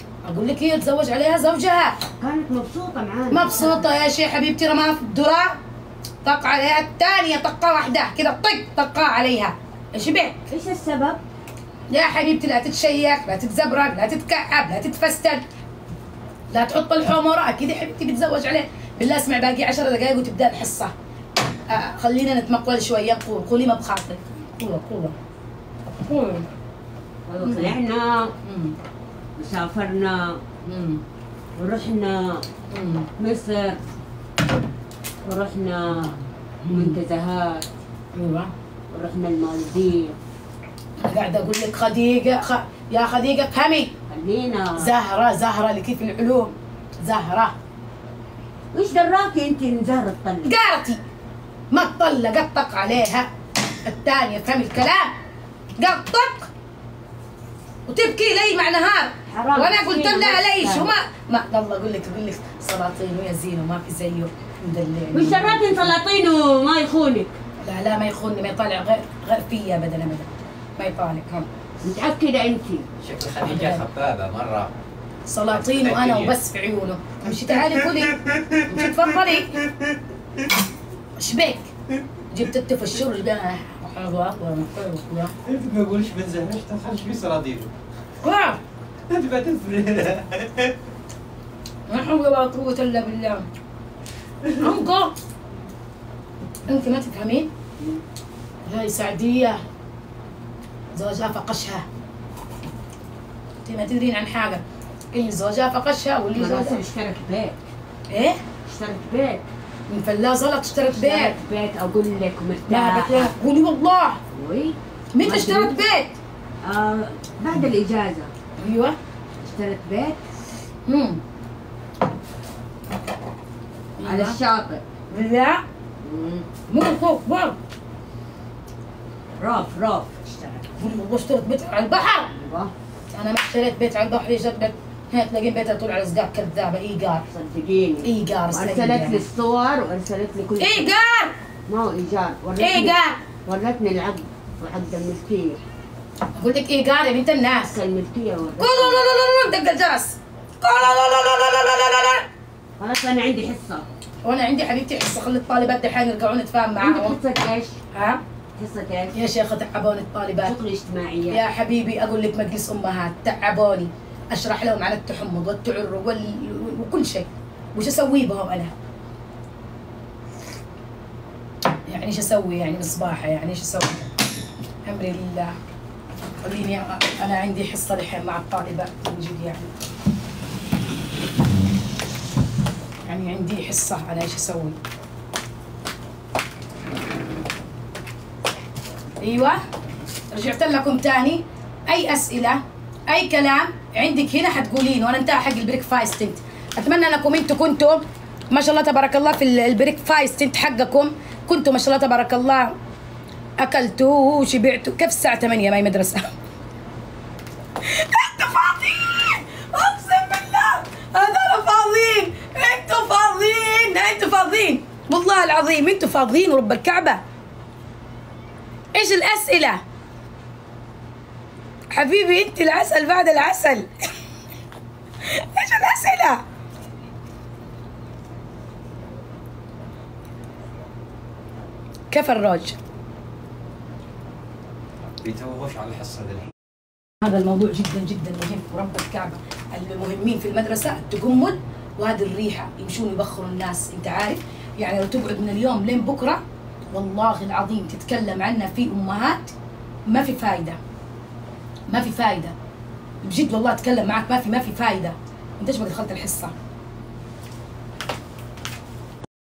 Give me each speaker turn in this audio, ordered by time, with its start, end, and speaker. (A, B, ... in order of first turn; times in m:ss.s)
0:00.2-0:02.0 A
0:02.2-0:03.9 B
0:03.3-0:05.6 A
0:06.2-0:10.4 A
0:10.5-0:11.2 B
0:11.9-0:15.4 A
0:16.5-0:20.9 A
0:21.7-0:25.1 A
0:26.1-0:26.4 A
0:27.3-0:28.3 B
0:27.4-0:27.8 A
0:28.4-0:28.8 A
0:29.4-0:30.4 B
0:30.6-0:31.0 A
0:31.6-0:32.4 B
0:32.7-0:33.1 A
0:33.2-0:33.8 B
0:35.2-0:36.2 B
0:36.6-0:37.0 A
0:36.7-0:37.6 B
0:38.1-0:38.5 A
0:38.9-0:40.2 B
0:41.0-0:43.9 A
0:44.1-0:44.9 B
0:44.8-0:47.5 A
0:48.7-0:50.5 B
0:50.4-0:51.0 A
0:51.7-0:53.3 A
0:53.8-0:55.1 A
0:55.8-0:56.5 A
0:57.9-1:05.9 A
0:59.3-1:00.9 B
1:05.1-1:07.4 B
1:07.6-1:11.5 A
1:11.8-1:12.9 B
1:13.0-1:14.7 C
1:13.5-1:13.8 A
1:15.2-1:19.6 A
1:15.5-1:16.3 C
1:21.2-1:21.7 A
1:22.3-1:25.3 A
1:25.4-1:27.7 C
1:28.2-1:28.6 A
1:29.1-1:30.8 C
1:31.9-1:33.4 A
1:34.4-1:34.7 C
1:34.6-1:35.1 A
1:36.7-1:37.5 A
1:38.6-1:39.6 A
1:40.9-1:41.8 A
1:43.6-1:46.8 A
1:46.4-1:47.6 B
1:48.1-1:48.4 A
1:48.6-1:49.4 B
1:49.9-1:51.3 A
1:50.9-1:53.4 B
1:52.7-1:54.2 A
1:54.3-1:55.8 B
1:55.1-1:56.2 A
1:56.6-1:58.3 B
1:58.6-1:59.0 A
1:59.4-2:00.2 B
2:00.8-2:01.2 A
2:04.0-2:04.4 A
2:04.0-2:04.8 B
2:05.1-2:05.6 A
2:06.0-2:06.4 B
2:06.7-2:07.6 A
2:09.4-2:10.7 B
2:10.8-2:12.3 A
2:12.3-2:12.7 B
2:13.1-2:17.2 A
2:17.3-2:20.8 B
2:18.0-2:19.2 A
2:20.6-2:21.3 A
2:21.7-2:25.6 B
2:22.6-2:23.2 A
2:26.4-2:27.8 A
2:27.7-2:29.0 B
2:28.6-2:32.3 A
2:32.8-2:33.9 B
2:34.2-2:37.2 A
2:36.8-2:37.8 B
2:37.9-2:38.2 A
2:38.6-2:39.2 B
2:39.1-2:40.5 A
2:40.4-2:41.4 B
2:41.3-2:48.7 A
2:51.8-2:54.1 A
2:54.8-2:55.6 A
2:56.4-2:59.7 A
3:03.0-3:04.8 A
3:09.2-3:09.6 A
3:10.3-3:22.7 A
3:23.6-3:26.3 A
3:27.8-3:37.2 A
3:38.9-3:39.8 A
3:41.9-3:44.1 A
3:45.2-3:46.4 A
3:52.1-3:52.8 A
3:55.2-3:56.5 C
3:57.2-4:06.4 A
4:06.9-4:09.5 A
4:10.1-4:10.8 A
4:11.9-4:12.5 A
4:13.2-4:16.5 A